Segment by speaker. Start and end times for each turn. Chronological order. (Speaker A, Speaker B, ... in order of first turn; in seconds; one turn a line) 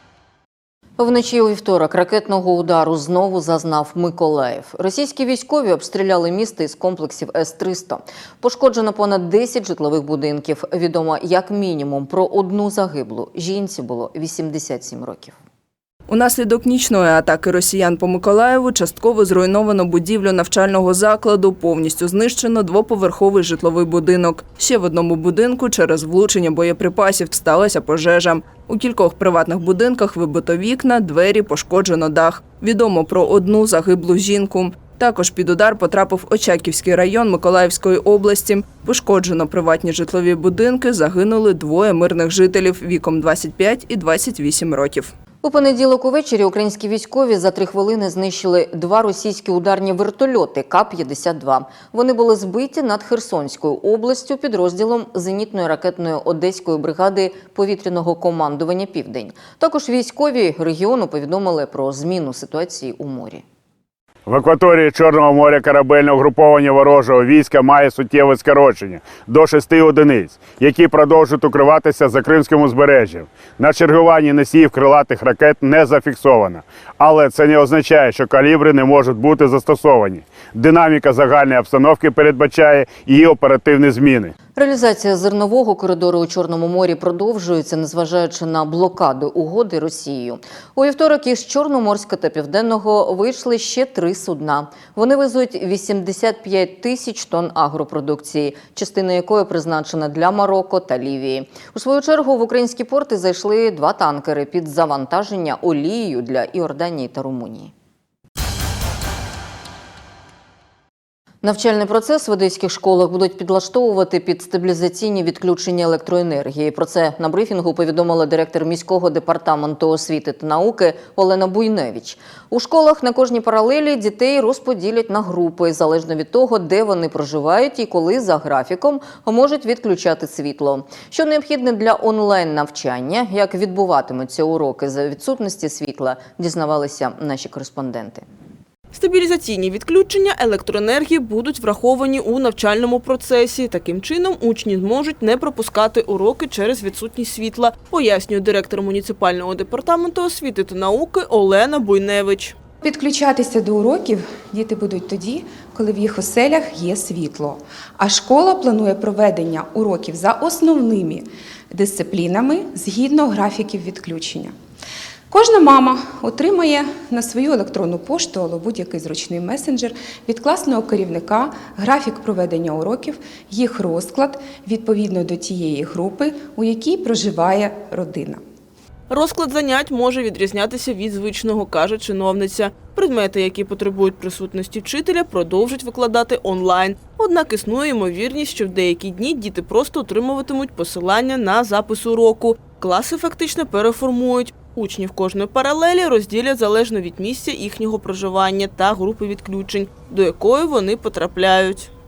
Speaker A: 1.0-15.3
Speaker B: 16.1-45.1
Speaker A: 45.4-63.4
Speaker C: 64.3-84.3
Speaker A: 84.6-107.7
Speaker A: 111.4-138.2
Speaker D: 138.9-152.6
Speaker E: 152.8-164.6
Speaker E: 165.3-178.4
Speaker D: 179.1-201.9